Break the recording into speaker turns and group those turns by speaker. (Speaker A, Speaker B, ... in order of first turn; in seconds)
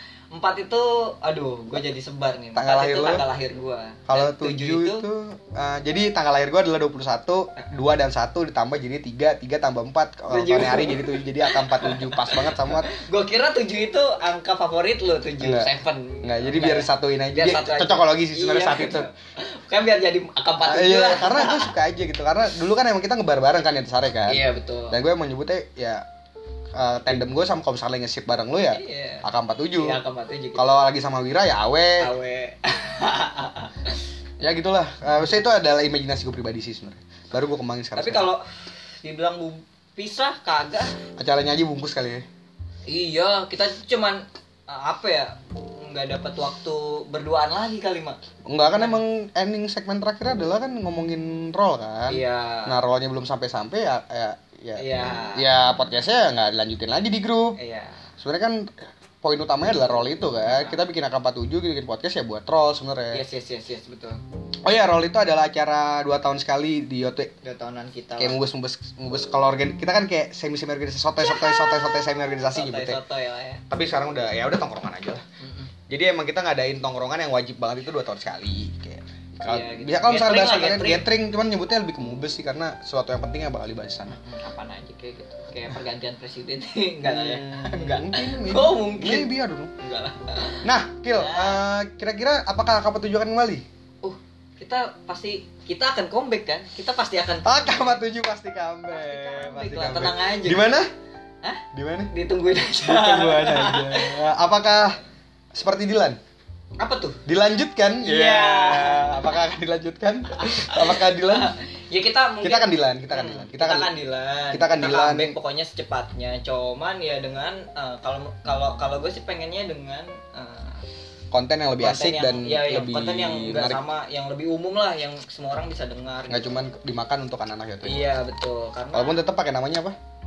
Speaker A: 0.3-5.1, 10.3-21.7, 24.3-25.0, 28.7-30.7, 32.0-34.0, 38.0-38.4, 39.0-41.0, 42.9-48.2, 48.7-49.0, 52.1-52.8, 54.8-55.5, 57.6-58.1, 60.5-60.8, 63.1-64.2, 67.4-68.4, 71.3-71.7, 72.5-73.6, 75.4-75.7, 79.4-81.1, 84.1-91.6, 94.0-98.0, 98.9-100.8, 101.4-104.2, 106.8-107.2, 108.0-109.4, 110.3-120.8, 121.8-126.6, 127.8-129.2
Speaker B: 2.5-3.2, 4.1-12.9, 15.4-15.7, 16.2-19.1, 20.6-26.0, 26.7-30.0, 30.6-32.1, 34.4-38.3, 41.2-42.2, 48.5-57.6, 58.2-63.2, 64.6-67.3, 68.2-73.0, 73.7-75.2, 75.9-84.2, 87.0-89.7, 90.6-93.6, 97.4-100.9, 101.7-102.1, 102.8-105.0, 105.5-106.2, 107.3-111.5, 112.4-113.9, 114.5-115.3, 121.3-123.8, 126.3-128.1, 128.9-129.9